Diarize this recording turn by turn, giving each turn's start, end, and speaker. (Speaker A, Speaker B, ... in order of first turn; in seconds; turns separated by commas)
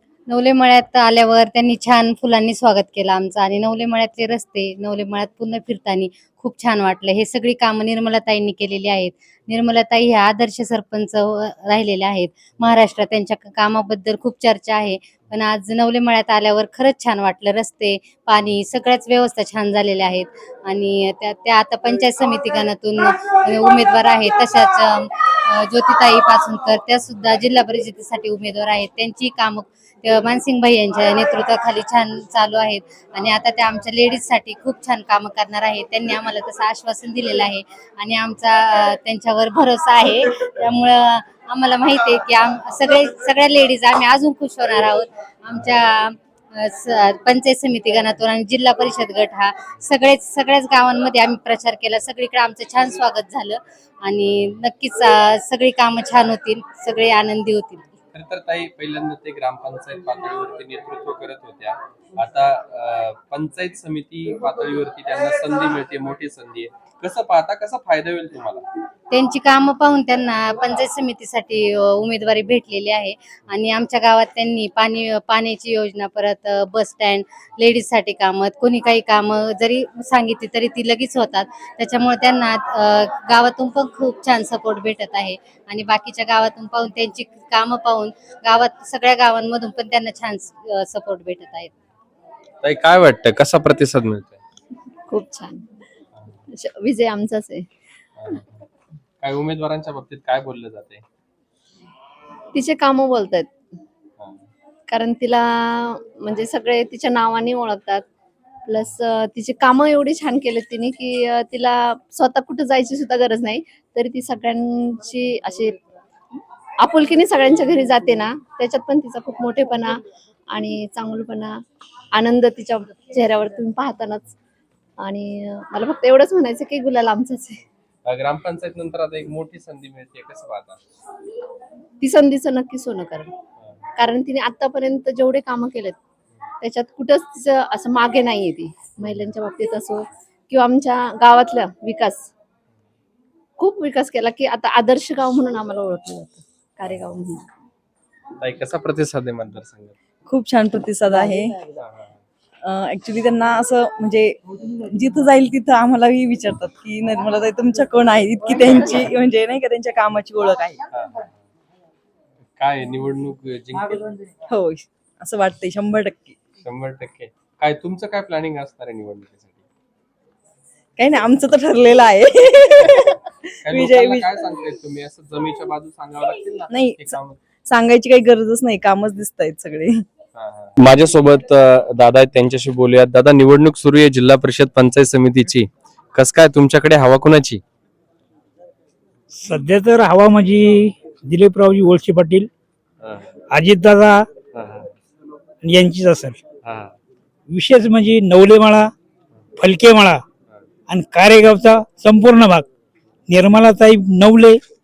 Speaker A: 0.3-57.8, Speaker B: 58.1-68.6, Speaker A: 69.1-91.7, Speaker B: 92.6-94.4, Speaker C: 95.1-95.6, Speaker C: 96.6-97.7, Speaker B: 98.2-98.7, Speaker B: 99.2-101.0, Speaker C: 102.5-103.5, Speaker C: 104.9-108.0, Speaker C: 108.7-115.7, Speaker C: 116.8-120.0, Speaker C: 120.5-121.6, Speaker C: 122.1-124.3, Speaker C: 125.0-127.6, Speaker B: 128.1-130.8, Speaker C: 132.0-133.3, Speaker C: 134.0-136.0, Speaker C: 136.6-142.3, Speaker C: 143.6-147.4, Speaker B: 148.4-149.9, Speaker D: 150.3-151.6, Speaker B: 151.8-152.1, Speaker D: 152.6-160.8, Speaker B: 160.9-161.3, Speaker B: 162.6-164.2, Speaker D: 164.5-166.4, Speaker B: 166.6-169.6, Speaker D: 171.0-174.4, Speaker B: 173.6-177.4, Speaker D: 176.7-180.1, Speaker B: 180.4-187.6, Speaker E: 189.4-192.5, Speaker E: 193.5-194.2, Speaker B: 194.5-194.9, Speaker E: 195.6-196.4, Speaker B: 196.6-196.9, Speaker E: 197.5-198.9, Speaker E: 199.6-200.2, Speaker E: 200.9-202.7, Speaker E: 203.3-204.6